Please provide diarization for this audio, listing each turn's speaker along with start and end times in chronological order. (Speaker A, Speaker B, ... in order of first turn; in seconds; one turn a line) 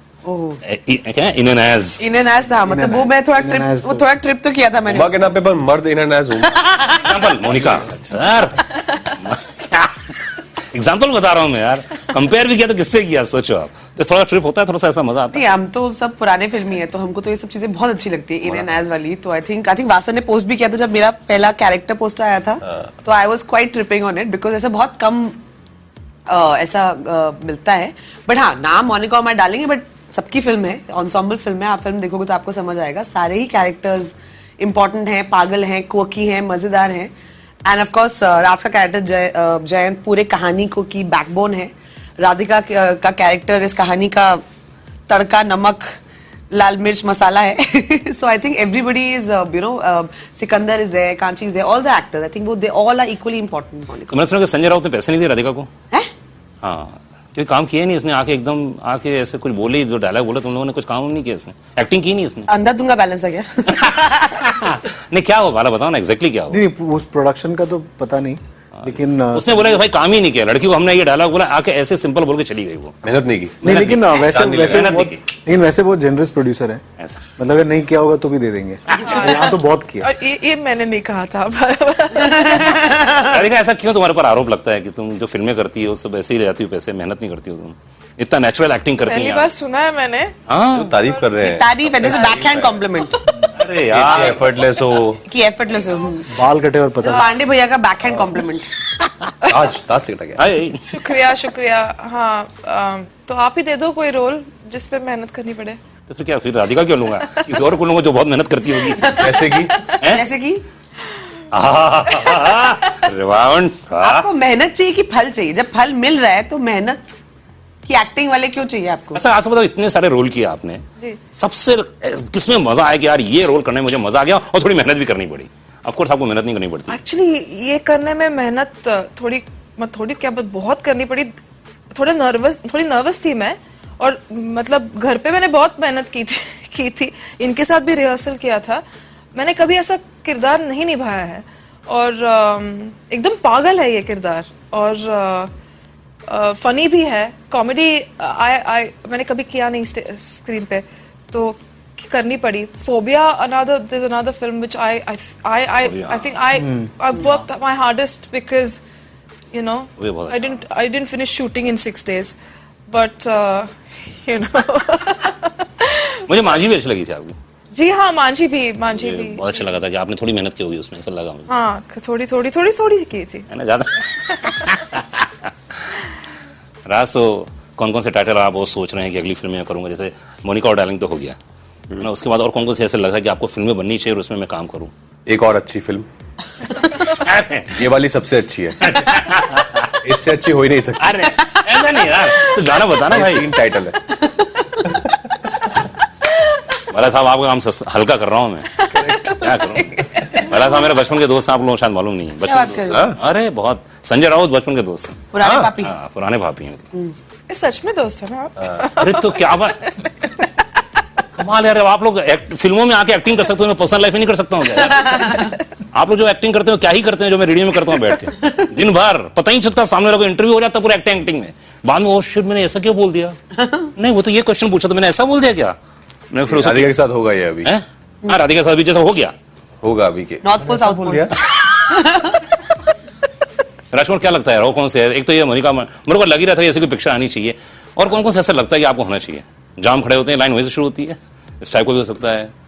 Speaker A: 0.2-0.6
Speaker B: 0.6-2.0
Speaker A: 2.0-5.3
Speaker C: 2.6-4.1
Speaker D: 4.8-6.5
Speaker A: 6.4-7.3
Speaker B: 6.9-15.5
Speaker A: 15.3-25.4
Speaker A: 26.3-37.1
Speaker A: 37.6-44.4
Speaker A: 45.1-45.9
Speaker A: 46.5-54.2
Speaker B: 54.1-55.7
Speaker B: 56.6-62.5
Speaker A: 62.5-64.5
Speaker B: 63.7-66.6
Speaker C: 66.5-69.8
Speaker B: 68.8-73.0
Speaker D: 73.0-75.0
Speaker B: 73.6-75.2
Speaker C: 73.6-76.8
Speaker B: 77.0-77.3
Speaker C: 77.4-80.1
Speaker E: 79.0-83.0
Speaker A: 82.3-83.2
Speaker B: 82.8-89.5
Speaker E: 89.1-90.3
Speaker B: 90.5-91.0
Speaker D: 90.7-93.1
Speaker A: 91.4-93.2
Speaker B: 93.5-94.6
Speaker D: 93.9-95.2
Speaker A: 95.2-96.4
Speaker C: 96.3-97.3
Speaker A: 97.0-99.0
Speaker D: 99.5-100.4
Speaker B: 100.4-100.8
Speaker E: 100.9-105.8
Speaker B: 106.1-109.4
Speaker E: 107.2-107.5
Speaker A: 109.0-110.6
Speaker D: 109.2-109.9
Speaker B: 110.0-110.3
Speaker B: 111.5-114.3
Speaker E: 112.1-112.8
Speaker A: 114.0-117.0
Speaker A: 117.8-119.2
Speaker B: 119.1-127.0
Speaker E: 126.9-131.4
Speaker E: 131.9-138.8
Speaker E: 139.3-145.5
Speaker E: 146.3-158.8
Speaker B: 155.8-156.3
Speaker C: 156.6-156.9
Speaker E: 159.5-162.4
Speaker B: 160.0-160.6
Speaker E: 162.9-166.2
Speaker B: 166.3-167.4
Speaker E: 167.7-169.6
Speaker B: 168.9-171.5
Speaker E: 171.5-173.5
Speaker B: 173.5-175.3
Speaker B: 176.9-181.4
Speaker B: 181.9-184.9
Speaker D: 185.3-186.1
Speaker B: 186.8-187.8
Speaker D: 187.8-189.1
Speaker B: 188.8-189.9
Speaker D: 190.0-191.2
Speaker B: 191.0-193.5
Speaker D: 193.1-194.2
Speaker A: 194.4-194.8
Speaker B: 196.8-206.9
Speaker E: 198.9-199.4
Speaker A: 202.4-203.1
Speaker D: 202.9-203.2
Speaker A: 205.3-205.9
Speaker D: 205.4-205.7
Speaker E: 207.5-210.3
Speaker B: 208.8-209.8
Speaker B: 211.3-223.4
Speaker A: 215.2-215.5
Speaker B: 223.9-225.8
Speaker B: 226.3-227.0
Speaker D: 226.5-227.7
Speaker B: 227.6-229.3
Speaker D: 229.8-230.6
Speaker A: 230.4-232.4
Speaker C: 230.7-231.1
Speaker B: 233.9-242.5